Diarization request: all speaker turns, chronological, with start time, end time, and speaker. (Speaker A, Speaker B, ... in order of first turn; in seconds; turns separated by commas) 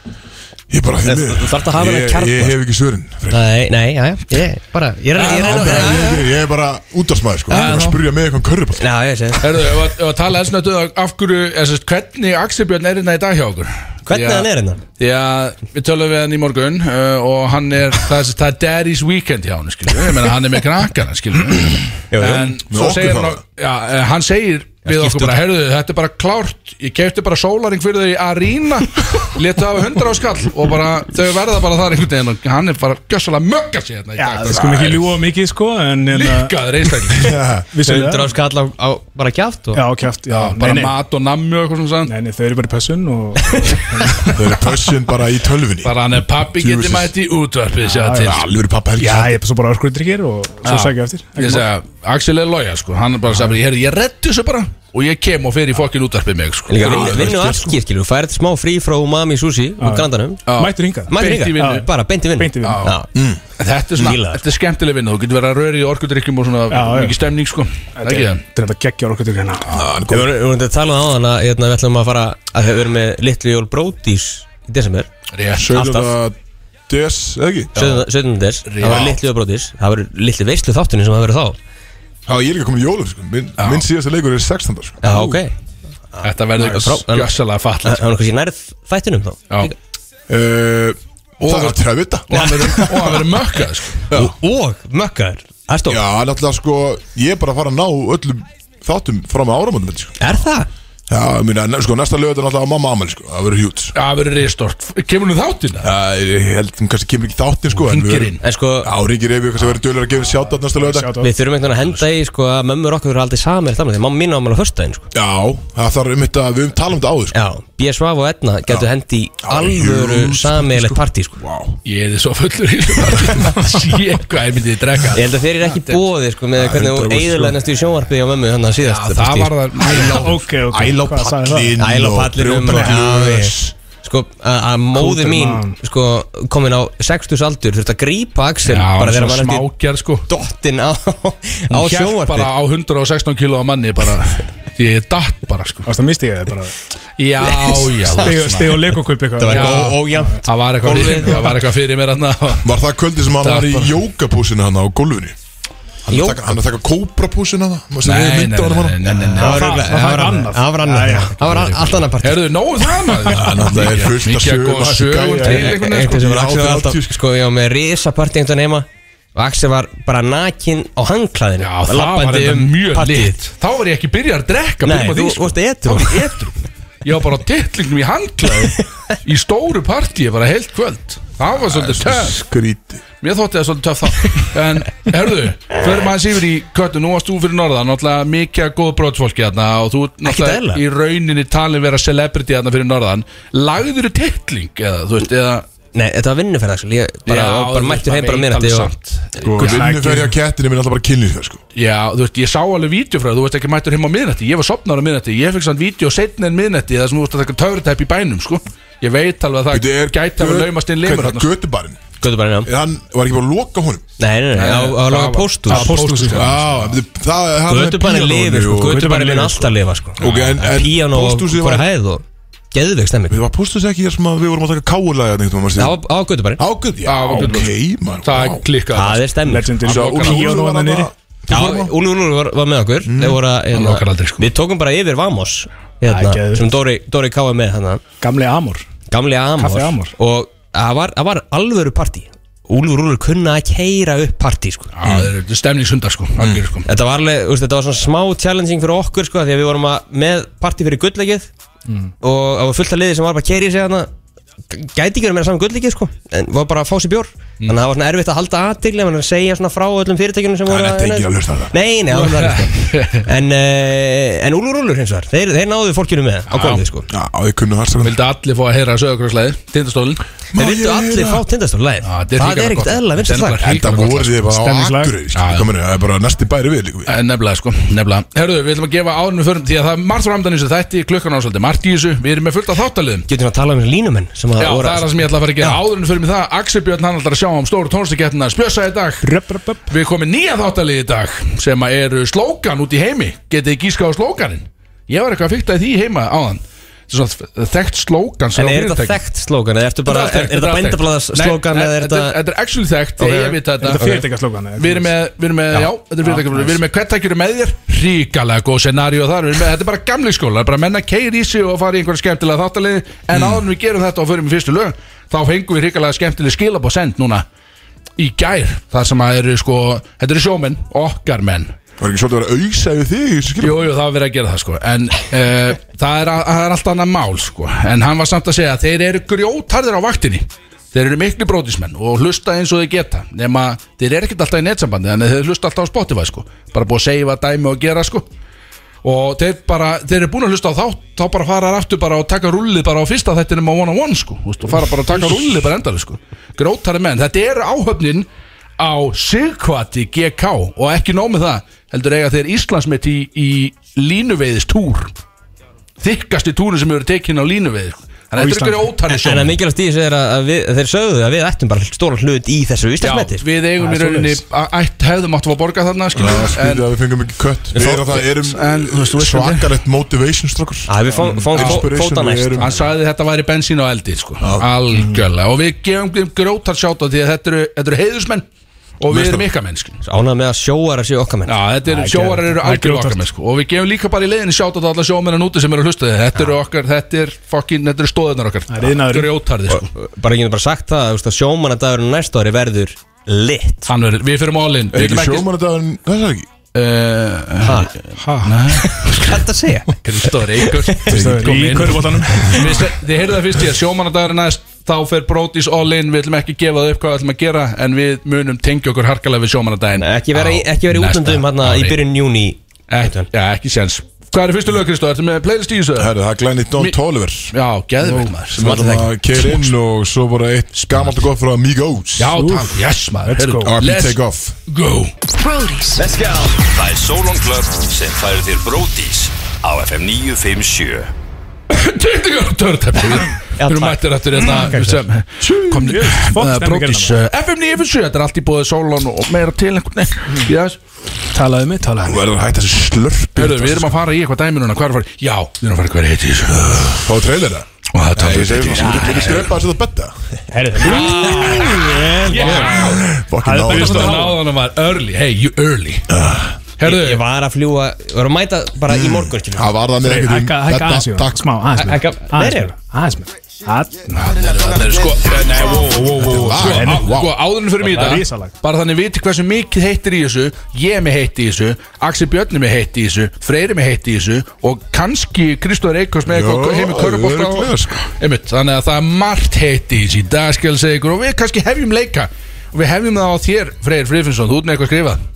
Speaker A: 0.7-3.5, Speaker B: 1.0-2.5, Speaker B: 3.3-6.2, Speaker C: 5.2-6.1, Speaker A: 5.2-8.9, Speaker C: 7.5-8.0, Speaker B: 7.5-7.8, Speaker B: 8.8-9.6, Speaker C: 9.4-35.2, Speaker B: 14.1-14.8, Speaker B: 22.1-22.6, Speaker A: 22.7-23.4, Speaker B: 24.9-25.4, Speaker D: 34.2-36.5, Speaker C: 36.1-37.4, Speaker A: 37.1-37.7, Speaker D: 37.2-38.3, Speaker B: 37.8-39.8, Speaker D: 39.7-40.9, Speaker C: 40.3-42.1, Speaker D: 42.0-44.4, Speaker A: 44.3-47.1, Speaker C: 45.8-48.5, Speaker D: 47.8-48.4, Speaker A: 48.2-49.4, Speaker D: 49.0-51.7, Speaker C: 50.6-57.3, Speaker B: 56.7-60.4, Speaker A: 56.8-57.8, Speaker D: 59.8-62.9, Speaker C: 60.5-61.9, Speaker B: 61.1-63.1, Speaker C: 62.6-62.9, Speaker A: 63.1-63.4, Speaker C: 63.6-68.4, Speaker B: 64.0-64.4, Speaker D: 66.7-67.2, Speaker D: 68.0-69.7, Speaker A: 69.7-70.3, Speaker B: 70.1-75.1, Speaker C: 75.3-75.7, Speaker A: 75.5-76.4, Speaker B: 75.7-76.1, Speaker A: 76.9-78.0, Speaker B: 77.7-81.6, Speaker C: 78.7-79.2, Speaker A: 82.3-85.2, Speaker C: 83.6-83.8, Speaker B: 85.0-85.5, Speaker C: 85.1-85.4, Speaker B: 86.1-89.7, Speaker C: 86.2-88.1, Speaker A: 90.3-93.0, Speaker C: 91.4-94.1, Speaker B: 92.3-93.3, Speaker B: 94.1-96.0, Speaker A: 95.9-100.4, Speaker B: 100.2-100.7, Speaker A: 101.1-103.9, Speaker C: 103.9-105.9, Speaker A: 105.8-111.2, Speaker C: 107.8-108.4, Speaker B: 108.4-108.9, Speaker D: 110.5-111.3, Speaker B: 111.2-115.1, Speaker A: 115.1-117.4, Speaker B: 117.3-121.4, Speaker A: 119.4-121.8, Speaker C: 121.8-126.0, Speaker B: 125.1-129.5, Speaker A: 126.5-127.6, Speaker C: 128.8-130.4, Speaker A: 129.8-133.7, Speaker D: 129.9-131.8, Speaker B: 131.8-139.7, Speaker D: 134.9-135.7, Speaker C: 138.6-140.3, Speaker B: 140.3-142.5, Speaker C: 141.7-145.9, Speaker D: 145.8-146.7, Speaker C: 147.2-152.7, Speaker B: 147.4-148.3, Speaker D: 148.2-150.4, Speaker B: 149.4-151.6, Speaker D: 150.9-151.4, Speaker A: 152.6-155.3, Speaker C: 153.4-154.0, Speaker A: 156.0-159.2, Speaker B: 156.1-156.4, Speaker C: 158.0-159.9, Speaker B: 159.1-162.4, Speaker D: 159.3-161.5, Speaker C: 161.4-166.2, Speaker A: 163.2-167.2, Speaker B: 165.4-173.3, Speaker C: 171.6-182.4, Speaker B: 174.8-176.4, Speaker B: 178.6-179.1, Speaker A: 181.6-183.0, Speaker C: 183.2-195.6, Speaker B: 190.2-190.8, Speaker B: 195.9-198.9, Speaker C: 197.3-199.9, Speaker A: 199.4-201.6, Speaker D: 199.6-200.3, Speaker C: 201.7-211.5, Speaker A: 209.7-212.0, Speaker B: 212.2-212.7, Speaker A: 212.6-214.0, Speaker B: 214.2-215.9, Speaker C: 214.5-217.0, Speaker D: 215.7-216.5, Speaker A: 216.2-219.3, Speaker B: 217.7-223.4, Speaker D: 218.9-219.7, Speaker A: 220.2-221.9, Speaker C: 220.2-220.6, Speaker A: 223.3-226.0, Speaker B: 225.8-226.6, Speaker A: 226.6-228.7, Speaker C: 227.0-230.6, Speaker B: 228.9-229.8, Speaker D: 229.4-231.1, Speaker A: 229.8-231.9, Speaker B: 231.5-238.0, Speaker A: 233.0-233.4, Speaker C: 233.7-234.5, Speaker D: 236.1-236.7, Speaker D: 238.2-238.9, Speaker B: 239.1-244.9, Speaker D: 239.6-240.1, Speaker C: 244.9-246.9, Speaker A: 245.0-245.3, Speaker A: 246.4-246.6, Speaker B: 246.8-251.5, Speaker B: 252.2-254.1, Speaker B: 254.7-267.1, Speaker A: 260.6-261.7, Speaker C: 262.1-263.3, Speaker C: 266.5-266.9, Speaker A: 267.1-268.2, Speaker C: 268.0-270.2, Speaker A: 270.5-271.4, Speaker B: 270.5-273.6, Speaker C: 272.0-274.4, Speaker A: 273.6-277.1, Speaker D: 274.4-275.1, Speaker C: 275.3-275.7, Speaker C: 277.1-283.3, Speaker B: 283.3-285.8, Speaker C: 284.6-289.3, Speaker D: 289.2-289.8, Speaker C: 289.9-299.2, Speaker B: 298.5-302.4, Speaker C: 300.1-304.2, Speaker B: 303.2-304.2, Speaker D: 303.8-305.1, Speaker C: 304.8-317.4, Speaker D: 306.2-306.8, Speaker A: 313.3-313.6, Speaker C: 318.2-321.7, Speaker A: 322.0-323.9, Speaker C: 323.6-338.3, Speaker C: 339.0-348.3, Speaker C: 348.8-355.1, Speaker C: 356.0-359.6, Speaker D: 358.4-358.9, Speaker B: 359.1-363.4, Speaker C: 363.0-366.9, Speaker D: 363.8-364.4, Speaker A: 366.1-372.9, Speaker C: 367.8-369.7, Speaker B: 370.9-372.6, Speaker C: 371.2-371.8, Speaker C: 372.6-378.4, Speaker A: 374.4-374.7, Speaker C: 379.0-380.0, Speaker A: 379.1-379.5, Speaker B: 380.0-381.6, Speaker C: 381.4-389.9, Speaker D: 381.8-383.2, Speaker D: 388.7-389.4, Speaker B: 389.7-393.9, Speaker C: 393.9-395.5, Speaker A: 394.9-396.5, Speaker C: 396.7-412.0, Speaker B: 397.6-397.9, Speaker D: 398.2-398.6, Speaker B: 398.7-399.9, Speaker B: 400.6-401.0, Speaker A: 401.1-402.4, Speaker D: 401.1-402.8, Speaker B: 410.0-413.3, Speaker C: 412.9-416.1, Speaker A: 415.9-417.5, Speaker C: 417.5-418.7, Speaker A: 418.4-422.4, Speaker B: 418.5-419.1, Speaker C: 420.7-421.2, Speaker C: 422.2-425.1, Speaker D: 422.3-423.7, Speaker A: 423.6-424.6, Speaker E: 425.6-431.1, Speaker C: 431.7-440.8, Speaker B: 433.6-434.0, Speaker D: 434.4-437.2, Speaker D: 441.3-442.2, Speaker A: 442.0-444.0, Speaker C: 443.3-447.1, Speaker A: 446.9-454.4, Speaker C: 447.9-449.5, Speaker B: 448.8-449.3, Speaker D: 450.5-454.4, Speaker C: 450.8-456.1, Speaker B: 450.9-452.7, Speaker A: 456.1-456.6, Speaker C: 456.8-457.2, Speaker B: 456.8-459.7, Speaker A: 458.9-461.5, Speaker D: 460.0-464.3, Speaker B: 461.7-462.7, Speaker C: 464.1-485.2, Speaker A: 466.1-467.4, Speaker D: 466.5-467.1, Speaker D: 467.8-468.5, Speaker A: 476.2-478.0